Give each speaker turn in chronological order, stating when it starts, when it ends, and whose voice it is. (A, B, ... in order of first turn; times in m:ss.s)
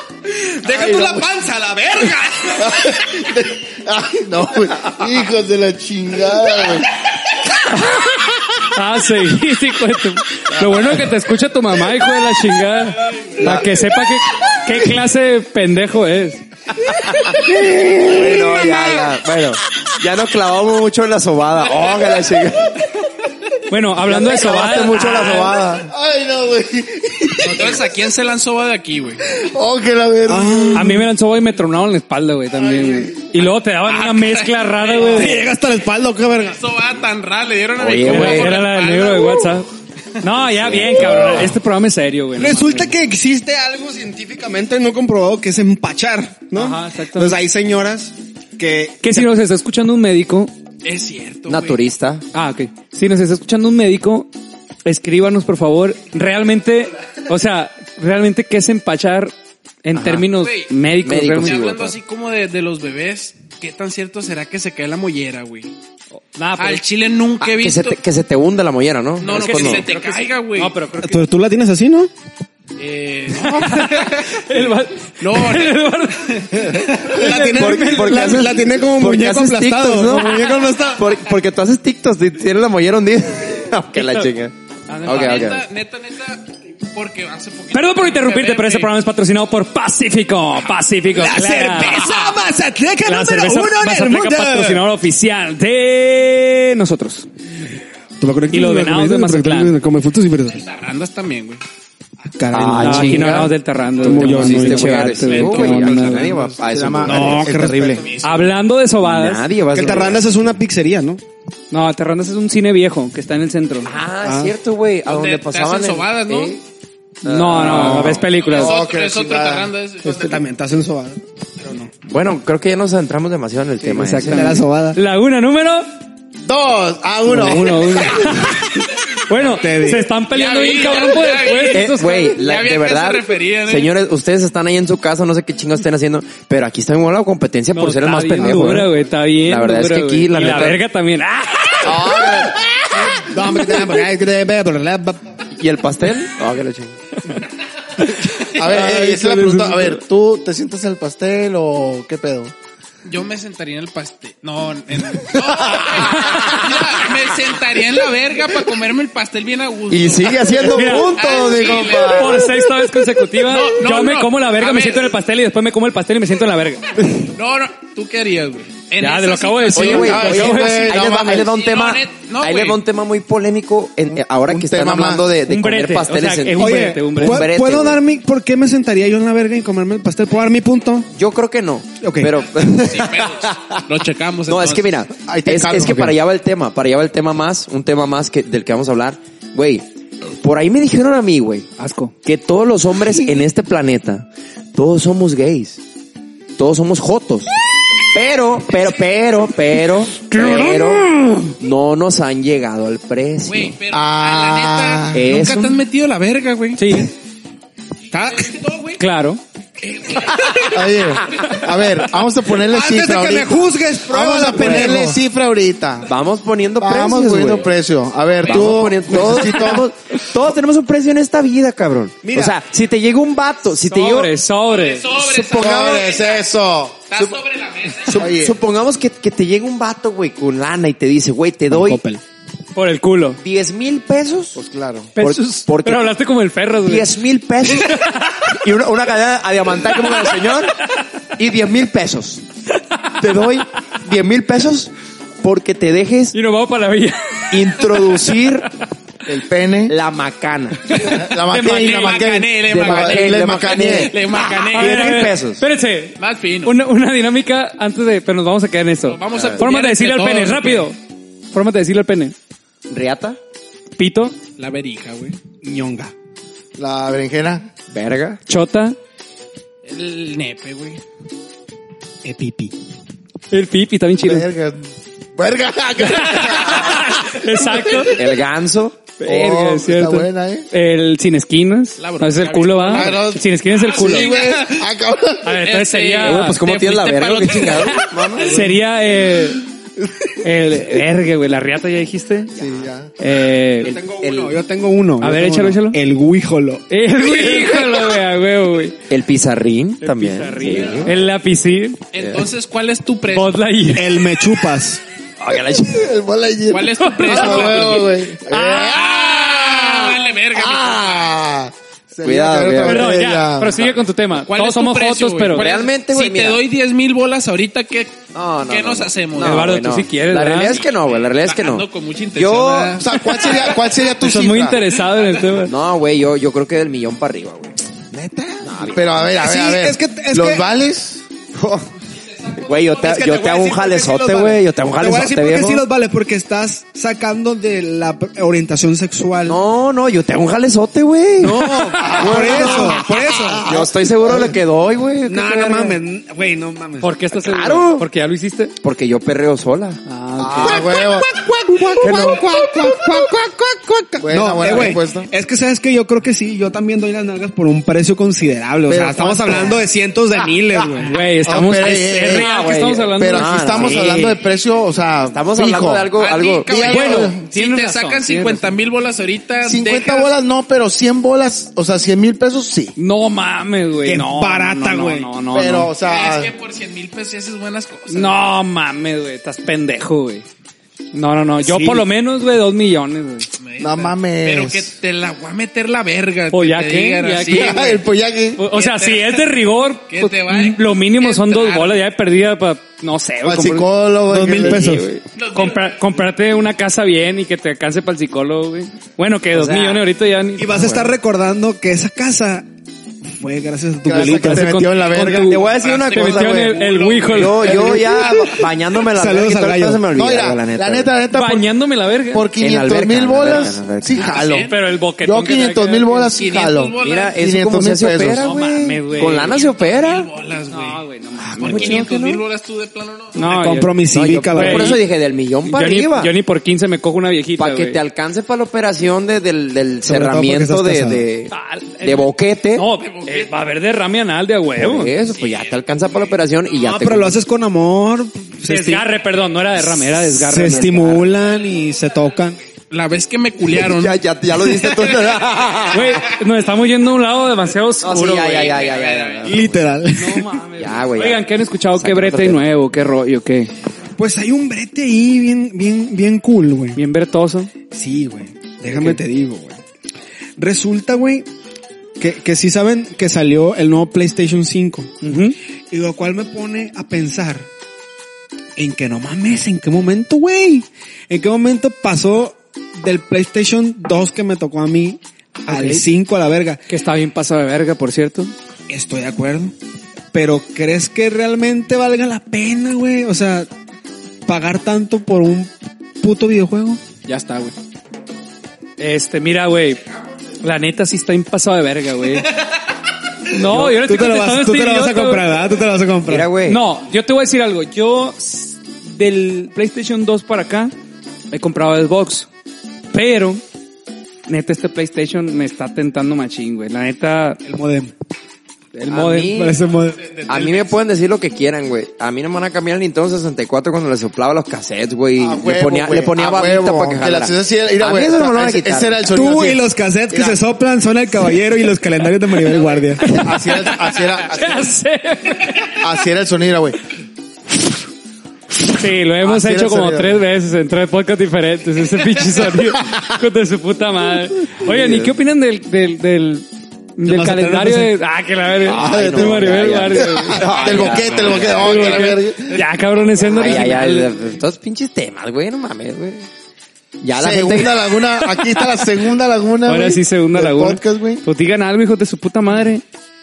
0:00.3-0:03.0 A
0:00.8-0:01.1 B
0:00.8-0:01.2 C
0:02.6-0:06.9 B
0:07.7-0:16.4 C
0:10.5-0:11.0 D
0:13.4-0:13.8 D
0:16.8-0:22.9 D
0:18.1-0:19.0 B
0:23.7-0:25.6 C
0:24.0-0:25.9 D
0:25.9-0:27.9 B
0:27.4-0:29.2 E
0:29.4-0:31.0 B
0:30.3-0:31.1 A
0:30.7-0:35.4 C
0:32.6-0:33.1 B
0:33.9-0:35.4 E
0:35.0-0:36.6 A
0:36.5-0:39.6 E
0:37.8-0:38.6 D
0:38.0-0:39.7 C
0:40.2-0:42.9 C
0:40.5-0:41.5 D
0:42.4-0:49.3 A
0:46.5-0:47.4 C
0:49.0-0:50.5 C
0:50.8-0:51.8 E
0:51.5-0:52.2 D
0:52.3-0:54.3 C
0:54.9-0:59.3 C
0:59.8-1:01.6 C
1:00.0-1:00.3 D
1:00.4-1:00.7 E
1:01.0-1:02.0 D
1:01.4-1:05.7 E
1:06.3-1:06.8 C
1:06.6-1:08.0 E
1:07.4-1:09.9 D
1:09.2-1:10.7 E
1:09.2-1:11.3 C
1:11.0-1:12.1 A
1:12.8-1:17.0 E
1:13.4-1:18.4 C
1:16.8-1:21.1 A
1:17.3-1:25.6 D
1:23.9-1:24.3 C
1:24.9-1:25.5 C
1:25.1-1:28.9 E
1:27.7-1:32.1 C
1:31.1-1:34.8 A
1:33.0-1:37.3 C
1:38.2-1:40.7 A
1:38.5-1:39.8 C
1:40.6-1:41.6 E
1:42.3-1:43.4 A
1:42.5-1:43.5 D
1:42.8-1:46.3 C
1:44.0-1:45.2 A
1:44.1-1:47.5 D
1:45.0-1:46.6 E
1:46.6-1:48.1 B
1:47.0-1:48.0 A
1:48.0-1:48.5 E
1:48.2-1:49.5 C
1:49.0-1:50.2 D
1:49.7-1:51.2 A
1:51.7-1:53.9 C
1:53.8-1:56.6 D
1:54.2-1:54.5 A
1:55.1-1:56.6 E
1:57.2-1:58.2 D
1:57.2-1:58.8 C
1:57.5-1:58.2 A
1:58.2-2:00.4 E
1:58.5-1:59.7 B
2:00.0-2:01.9 A
2:02.0-2:04.5 D
2:03.8-2:05.9 C
2:03.9-2:05.0 A
2:06.4-2:08.5 B
2:07.3-2:12.4 C
2:07.3-2:07.8 A
2:09.4-2:10.0 A
2:10.3-2:13.9 E
2:11.7-2:20.8 D
2:17.7-2:22.5 C
2:21.8-2:22.6 B
2:22.9-2:25.2 A
2:25.6-2:27.0 D
2:28.4-2:30.0 C
2:28.5-2:32.5 B
2:33.0-2:42.5 E
2:35.6-2:36.7 D
2:39.9-2:42.5 D
2:40.7-2:41.2 C
2:42.1-2:47.0 C
2:43.4-2:45.2 E
2:47.3-2:50.3 E
2:49.0-2:51.0 C
2:49.7-2:58.0 D
2:49.8-2:51.5 B
2:51.4-2:52.8 E
2:54.2-2:55.3 B
2:55.5-2:57.5 C
2:56.6-3:01.1 A
3:01.2-3:03.8 D
3:02.0-3:02.3 A
3:02.8-3:04.9 E
3:04.5-3:09.9 D
3:05.2-3:06.2 B
3:10.4-3:11.7 D
3:11.8-3:12.1 C
3:12.2-3:15.8 D
3:16.6-3:17.5 D
3:18.1-3:23.8 D
3:20.2-3:21.6 C
3:23.5-3:27.0 E
3:23.9-3:25.6 B
3:25.1-3:25.8 D
3:26.8-3:27.1 C
3:28.1-3:28.6 A
3:28.1-3:29.0 E
3:29.0-3:29.4 C
3:29.8-3:31.1 E
3:30.7-3:36.1 B
3:32.6-3:35.2 A
3:36.1-3:37.7 D
3:36.8-3:39.9 B
3:38.4-3:44.3 D
3:39.5-3:39.8 C
3:42.2-3:42.6 A
3:43.9-3:45.1 C
3:44.7-3:46.4 E
3:45.3-3:47.4 B
3:45.3-3:45.8 D
3:47.1-3:48.3 E
3:48.0-3:52.0 D
3:48.1-3:48.6 B
3:51.7-3:52.2 A
3:52.8-3:53.4 C
3:53.4-3:54.6 D
3:54.6-3:55.1 B
3:55.2-3:57.1 C
3:55.2-3:56.0 D
3:56.8-4:00.7 D
3:57.7-3:58.6 C
4:00.0-4:00.4 C
4:01.4-4:02.4 D
4:03.2-4:06.4 D
4:06.3-4:08.2 C
4:07.5-4:08.7 D
4:09.3-4:10.0 B
4:09.9-4:10.9 D
4:10.9-4:12.3 C
4:11.0-4:14.1 B
4:11.5-4:15.1 E
4:12.6-4:15.6 D
4:14.7-4:21.0 C
4:16.2-4:16.8 E
4:19.1-4:20.9 E
4:19.3-4:19.6 D
4:21.5-4:22.3 C
4:22.9-4:23.4 D
4:24.0-4:24.4 C
4:24.6-4:25.4 E
4:25.6-4:26.1 A
4:26.8-4:27.7 B
4:27.9-4:28.4 D
4:28.5-4:29.0 C
4:29.8-4:31.0 E
4:32.2-4:32.7 A
4:33.5-4:34.5 C
4:34.2-4:38.1 B
4:36.0-4:38.3 C
4:38.2-4:39.1 D
4:39.2-4:40.7 B
4:39.2-4:44.4 C
4:42.0-4:44.9 E
4:42.9-4:45.6 B
4:45.4-4:46.6 C
4:45.5-4:48.6 E
4:46.2-4:48.7 D
4:47.9-4:49.6 C
4:50.4-4:52.6 C
4:52.6-4:53.1 B
4:53.2-4:54.0 C
4:53.8-4:54.6 D
4:53.8-4:56.9 A
4:55.2-4:56.0 C
4:56.9-4:59.0 C
4:59.1-5:01.2 D
5:00.0-5:02.0 C
5:02.1-5:03.6 E
5:02.2-5:02.4 D
5:03.3-5:04.2 C
5:03.9-5:05.0 A
5:05.4-5:06.0 D
5:05.9-5:13.8 B
5:06.7-5:11.4 E
5:07.0-5:08.9 C
5:12.2-5:13.1 D
5:12.8-5:15.7 C
5:14.4-5:19.7 E
5:15.5-5:16.6 D
5:18.3-5:23.0 D
5:19.4-5:20.8 C
5:21.0-5:23.8 E
5:23.0-5:24.8 B
5:24.2-5:25.7 C
5:25.6-5:27.8 D
5:28.1-5:31.2 B
5:28.6-5:29.3 D
5:29.4-5:30.6 A
5:31.6-5:31.9 D
5:32.4-5:33.2 E
5:32.5-5:35.8 D
5:33.0-5:39.6 A
5:39.4-5:43.1 D
5:41.4-5:43.7 A
5:42.0-5:44.6 B
5:43.6-5:46.0 D
5:45.3-5:47.1 A
5:47.0-5:48.7 C
5:47.4-5:48.1 D
5:48.8-5:50.0 D
5:50.1-5:50.9 C
5:50.4-5:51.3 B
5:50.6-6:01.1 A
5:52.0-5:52.4 B
5:54.2-5:55.3 B
5:58.9-5:59.8 B
6:01.0-6:04.0 C
6:01.4-6:02.5 B
6:02.2-6:04.4 D
6:03.2-6:06.1 B
6:05.3-6:06.7 D
6:06.2-6:10.3 E
6:06.7-6:07.4 B
6:06.8-6:08.7 C
6:09.6-6:13.0 B
6:13.0-6:15.9 C
6:14.0-6:15.3 A
6:15.5-6:16.5 B
6:16.0-6:18.4 E
6:18.1-6:20.4 C
6:21.1-6:23.5 C
6:21.6-6:22.1 A
6:23.6-6:28.0 E
6:23.8-6:24.9 B
6:26.5-6:27.8 C
6:27.5-6:28.6 B
6:28.6-6:33.9 C
6:28.7-6:29.5 E
6:30.1-6:32.1 E
6:33.4-6:35.0 B
6:34.3-6:35.1 A
6:34.5-6:41.1 C
6:35.4-6:36.1 E
6:39.5-6:40.0 D
6:40.6-6:42.7 A
6:43.3-6:44.9 A
6:44.1-6:45.6 B
6:44.2-6:47.8 C
6:45.2-6:51.1 D
6:45.6-6:48.6 E
6:47.7-6:48.4 A
6:47.8-6:48.3 B
6:49.1-6:50.1 A
6:50.1-6:51.7 B
6:51.3-6:52.5 C
6:52.3-6:58.5 B
6:52.6-6:54.4 D
6:54.2-6:54.8 E
6:54.7-6:56.3 C
6:56.3-6:57.4 E
6:57.0-7:00.3 D
6:58.4-6:59.6 C
6:59.3-7:01.0 E
7:00.7-7:02.0 C
7:01.5-7:02.4 D
7:01.6-7:03.5 E
7:03.4-7:05.0 C
7:03.4-7:05.0 A
7:04.1-7:06.3 D
7:05.6-7:08.0 C
7:07.6-7:12.9 D
7:10.0-7:11.2 A
7:11.5-7:15.1 C
7:13.0-7:13.5 E
7:14.8-7:17.4 D
7:15.3-7:16.1 E
7:16.8-7:19.1 A
7:18.6-7:21.2 C
7:20.2-7:22.6 A
7:20.6-7:21.0 D
7:22.9-7:24.2 E
7:23.7-7:26.3 D
7:24.7-7:25.0 E
7:25.9-7:28.9 C
7:28.0-7:29.8 D
7:28.5-7:29.6 E
7:29.4-7:30.5 A
7:30.1-7:33.7 C
7:30.8-7:31.4 D
7:32.0-7:32.6 D
7:34.2-7:37.0 A
7:37.0-7:37.7 C
7:37.9-7:39.8 A
7:38.9-7:39.2 C
7:40.6-7:41.5 A
7:42.2-7:45.1 A
7:45.2-7:45.6 C
7:45.9-7:47.7 A
7:48.8-7:56.8 A
7:55.7-7:56.1 C
7:56.9-7:58.5 C
7:58.9-7:59.7 A
8:00.3-8:03.7 A
8:04.5-8:07.0 A
8:07.3-8:07.7 C
8:09.0-8:10.0 C
8:10.6-8:12.5 C
8:13.5-8:15.5 C
8:13.6-8:16.5 A
8:16.3-8:16.8 D
8:16.6-8:20.9 C
8:21.5-8:22.5 C
8:23.1-8:23.6 C
8:24.5-8:27.6 C
8:27.6-8:28.1 A
8:28.9-8:29.7 C
8:29.1-8:29.8 D
8:29.5-8:30.2 A
8:30.2-8:31.0 E
8:30.5-8:39.2 D
8:35.4-8:40.6 B
8:39.3-8:43.4 A
8:43.2-8:43.9 C
8:43.3-8:45.0 B
8:44.5-8:46.0 C
8:45.9-8:47.0 B
8:48.9-9:00.7 C
8:49.4-8:50.4 B
8:54.9-8:55.3 D
8:57.2-8:58.1 A
8:58.8-9:02.2 D
9:00.2-9:02.8 B
9:00.7-9:01.8 E
9:01.7-9:04.3 C
9:03.5-9:06.5 D
9:07.2-9:08.0 D
9:07.4-9:11.4 B
9:08.4-9:09.0 C
9:09.9-9:13.0 C